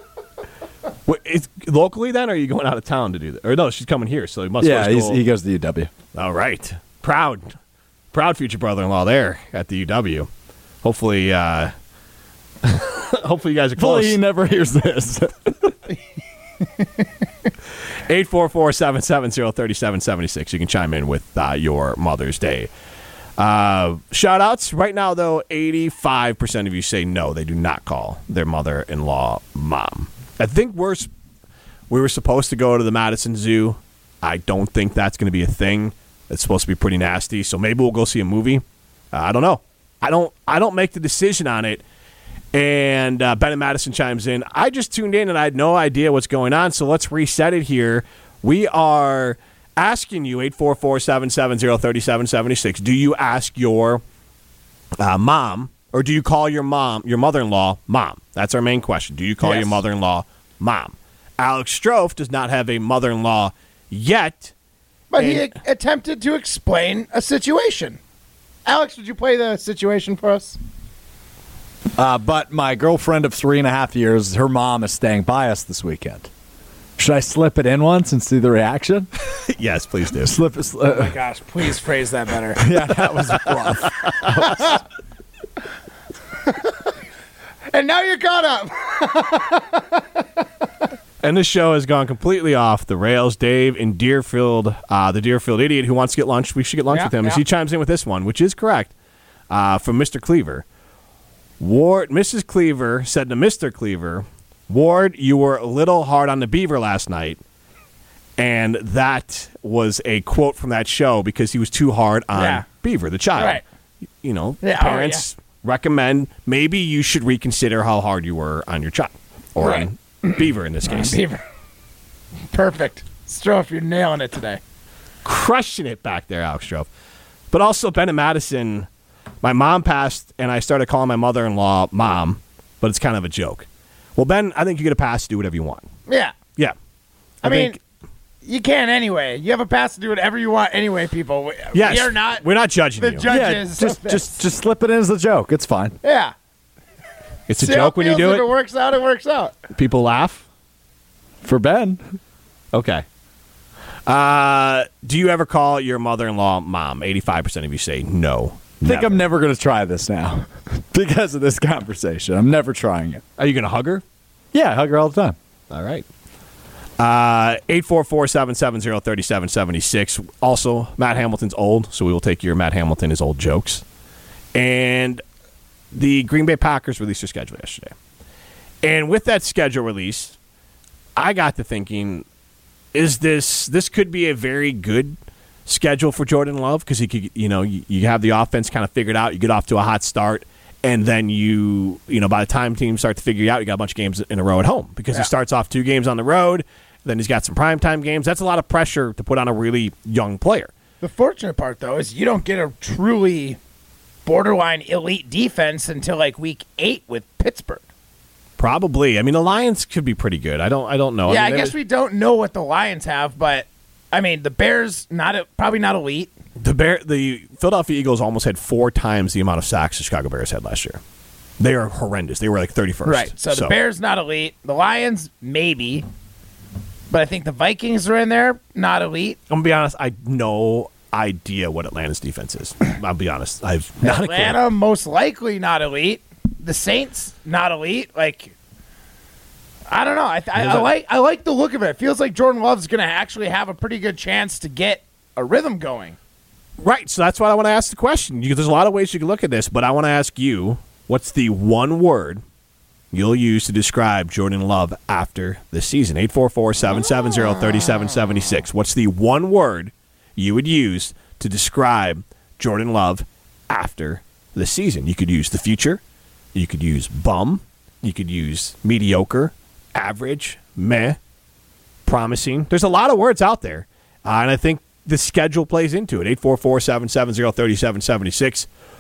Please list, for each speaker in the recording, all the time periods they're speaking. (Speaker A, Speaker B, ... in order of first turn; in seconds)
Speaker A: 1.1-5.2, 6.2-7.5, 8.1-10.3, 10.8-11.7, 12.6-14.2, 18.1-22.7, 23.4-31.1, 31.9-41.8, 42.5-54.0, 55.0-64.5, 65.2-65.5, 79.5-80.4, 84.3-84.7, 91.2-98.9, 99.5-100.7, 101.6-107.4, 108.4-113.6, 114.2-121.2, 125.2-126.9, 127.5-128.9, 129.4-135.9, 137.4-137.8, 141.8-143.3, 147.5-148.5, 149.7-150.4, 152.7-153.1, 154.1-159.2, 163.4-164.0, 165.7-166.1, 167.0-173.8, 174.6-175.2, 175.9-177.9, 178.8-180.3, 181.2-182.2, 182.9-185.2, 185.7-200.7, 208.6-211.8, 216.6-221.0, 221.6-223.8, 229.5-234.6, 240.6-240.9, 246.8-252.4, 253.1-266.0, 266.5-271.2, 272.1-278.7
Speaker B: 4.6-5.9, 13.8-15.8, 72.0-76.3, 77.0-79.1, 80.2-81.2, 82.6-84.7, 143.3-146.0, 151.4-152.2, 158.8-163.2, 164.5-165.4
Speaker C: 59.4-59.8, 65.1-68.0, 68.7-70.6, 80.9-82.7, 87.7-90.0, 96.9-97.4, 112.3-112.7, 113.4-113.6, 114.6-115.2, 119.6-121.4, 122.5-124.6, 136.1-136.3, 137.4-137.8, 138.4-142.4, 143.0-144.4, 146.0-146.3, 147.6-149.6, 201.0-203.6, 204.2-207.8, 211.3-216.3, 223.1-226.1, 227.1-229.4, 234.0-238.5, 239.9-246.2